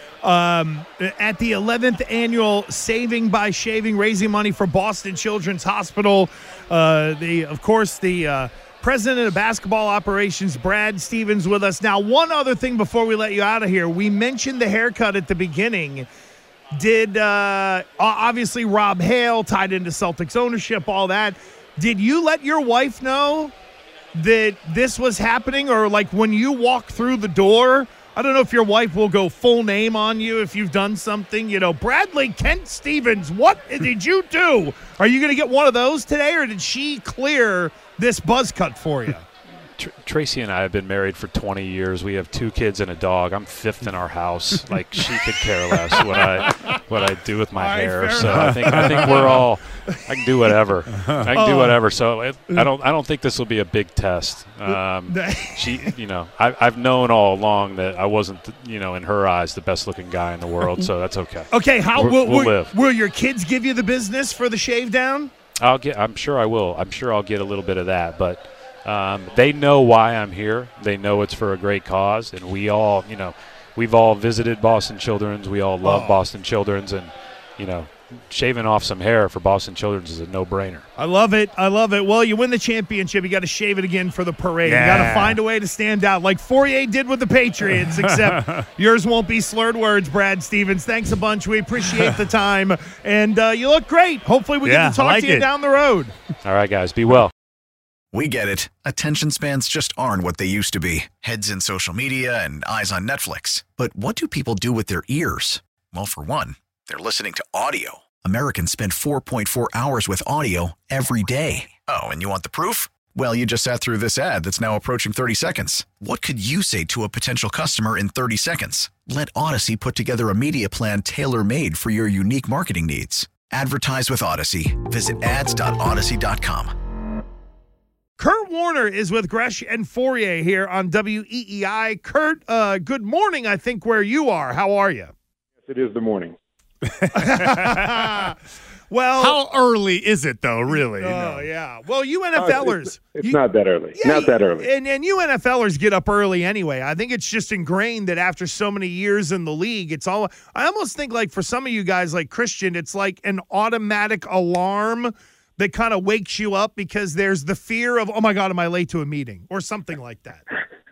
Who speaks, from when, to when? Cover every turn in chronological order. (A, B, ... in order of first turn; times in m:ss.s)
0:00.2-0:16.1 A
0:16.7-0:23.5 A
0:24.1-0:39.2 A
0:39.8-1:02.7 B
0:47.6-0:50.0 A
0:51.3-0:51.8 A
0:54.7-0:55.9 A
1:01.5-1:05.3 A
1:05.6-1:20.9 B
1:15.8-1:16.2 A
1:21.0-1:36.1 A
1:24.6-1:25.4 C
1:34.6-1:35.5 C
1:36.4-1:37.3 B
1:38.1-2:06.7 D
2:08.2-2:15.1 A
2:15.6-2:16.4 E
2:16.9-2:18.3 C
2:17.1-2:18.4 A
2:18.9-2:19.4 A
2:19.2-2:21.5 C
2:20.7-2:23.4 A
2:22.4-2:24.7 E
2:24.0-2:40.4 A